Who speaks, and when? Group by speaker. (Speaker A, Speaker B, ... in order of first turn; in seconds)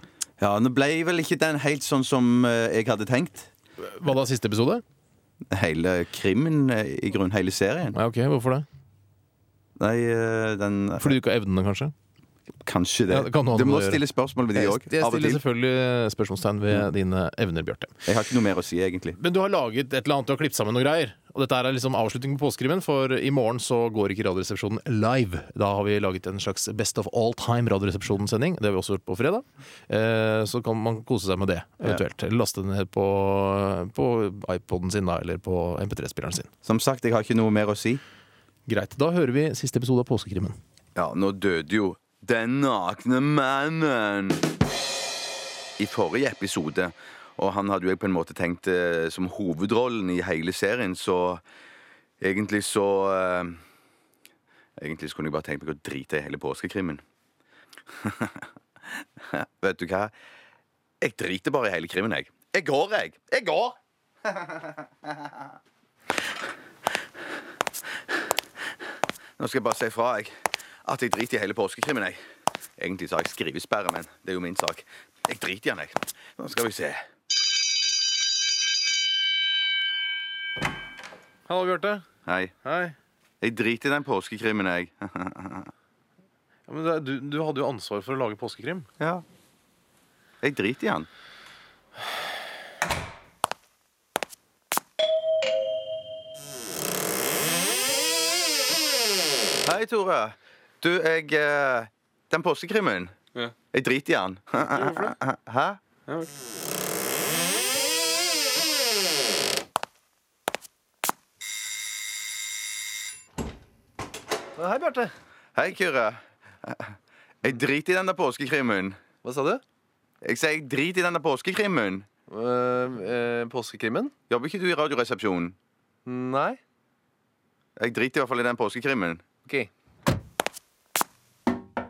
Speaker A: 0.4-3.5, 5.5-8.0, 9.8-11.2, 12.6-15.4, 18.1-19.2, 36.6-38.0, 41.0-44.4, 45.8-51.4, 52.2-53.6, 54.8-57.0, 57.9-60.1, 61.0-65.4, 69.4-72.2, 72.8-77.0, 82.2-82.5, 83.4-85.7, 89.0-89.2, 90.4-91.1, 99.7-103.1, 103.7-105.8, 115.5-119.0, 120.2-122.0, 124.3-125.5, 127.8-129.2
Speaker B: 3.8-4.8, 7.9-8.6, 11.0-11.9, 13.1-14.0, 14.5-18.1, 19.2-36.5, 38.7-40.6, 81.5-82.0, 82.6-82.9, 86.7-88.9
Speaker C: 114.6-115.1, 119.2-119.6, 122.3-124.1, 126.0-126.6